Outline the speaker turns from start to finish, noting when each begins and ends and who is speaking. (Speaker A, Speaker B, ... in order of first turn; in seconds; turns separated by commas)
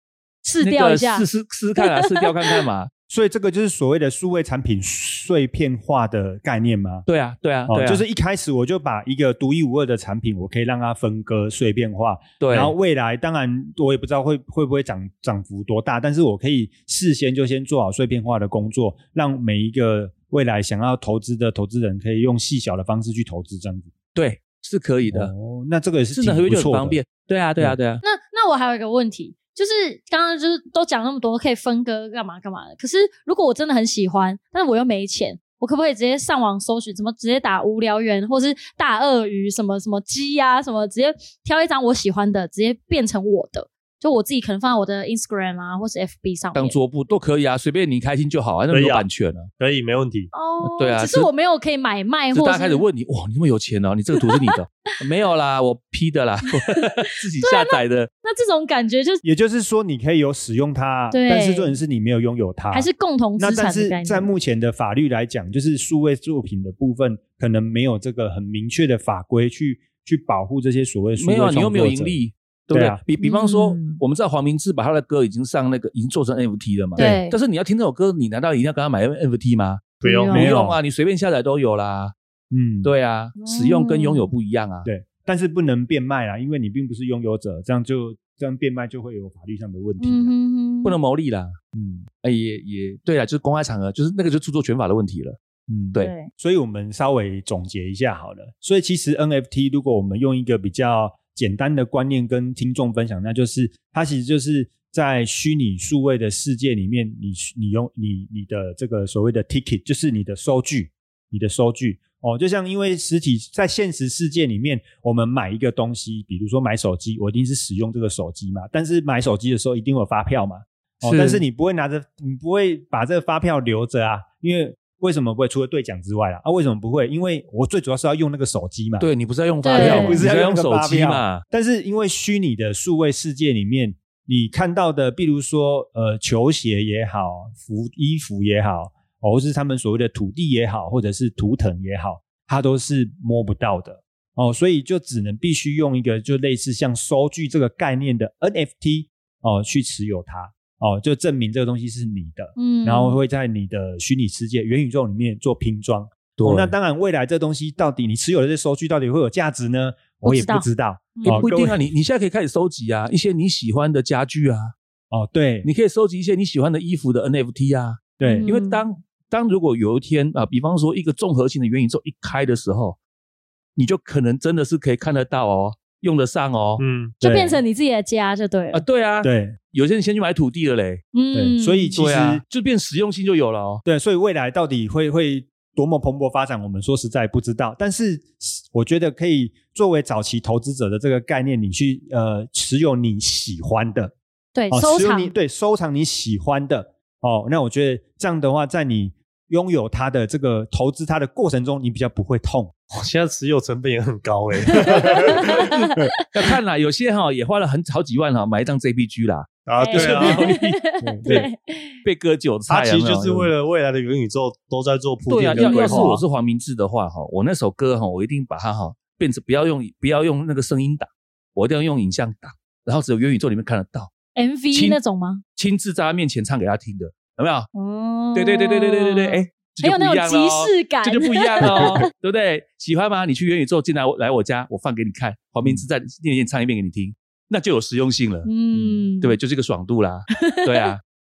Speaker A: 0.4-1.2, Speaker B: 0.6-2.9, Speaker A: 1.8-2.6, Speaker C: 3.1-7.0, Speaker B: 7.0-8.0, Speaker C: 7.7-23.9, Speaker B: 12.4-12.7, Speaker B: 24.1-25.3, Speaker C: 25.1-27.0, Speaker B: 26.1-28.0, Speaker A: 28.0-46.7, Speaker B: 46.5-49.5, Speaker D: 48.7-49.0, Speaker D: 49.6-50.3, Speaker A: 50.3-52.8, Speaker B: 50.6-51.3, Speaker B: 52.3-58.1, Speaker A: 54.2-54.5, Speaker A: 56.5-56.9, Speaker A: 57.4-59.2, Speaker C: 59.2-62.9, Speaker A: 61.1-61.8, Speaker A: 62.7-64.3, Speaker C: 63.4-72.2, Speaker B: 71.2-82.1, Speaker C: 72.7-73.0, Speaker A: 73.2-74.0, Speaker A: 77.0-77.4, Speaker D: 80.0-80.3, Speaker A: 80.0-80.5, Speaker C: 80.3-80.8, Speaker C: 82.5-82.9, Speaker B: 82.8-84.9, Speaker A: 83.4-84.3, Speaker C: 84.8-90.3, Speaker A: 90.0-91.0, Speaker B: 90.8-91.5, Speaker C: 91.7-92.1, Speaker B: 92.2-95.4, Speaker C: 95.7-129.1, Speaker A: 96.0-96.3, Speaker B: 121.0-121.4, Speaker B: 129.0-131.4, Speaker A: 129.6-130.2, Speaker C: 129.7-161.8, Speaker A: 152.6-153.2, Speaker B: 156.4-156.7, Speaker A: 160.2-161.5, Speaker B: 161.2-164.7, Speaker C: 165.1-165.7, Speaker B: 165.6-173.0, Speaker C: 168.2-168.5, Speaker A: 168.2-168.8, Speaker B: 173.8-176.8, Speaker D: 176.8-177.2, Speaker C: 177.2-177.6, Speaker A: 177.2-178.8, Speaker B: 178.7-181.0, Speaker C: 179.2-179.6, Speaker A: 181.1-181.9, Speaker C: 181.3-182.4, Speaker B: 182.0-183.8, Speaker C: 183.8-194.1, Speaker A: 194.5-195.3, Speaker C: 194.7-202.7, Speaker D: 202.9-205.7, Speaker A: 204.7-205.9, Speaker B: 206.3-211.5, Speaker D: 209.7-210.5, Speaker A: 209.8-212.0, Speaker C: 211.0-211.5, Speaker B: 212.0-213.5, Speaker D: 212.7-216.2, Speaker B: 215.3-224.1, Speaker A: 215.5-216.1, Speaker A: 224.4-225.4, Speaker B: 224.7-225.0, Speaker B: 225.6-227.7, Speaker A: 227.7-231.9, Speaker B: 228.3-238.5, Speaker A: 238.4-239.4, Speaker C: 238.7-239.1, Speaker B: 239.2-241.0, Speaker A: 240.3-240.9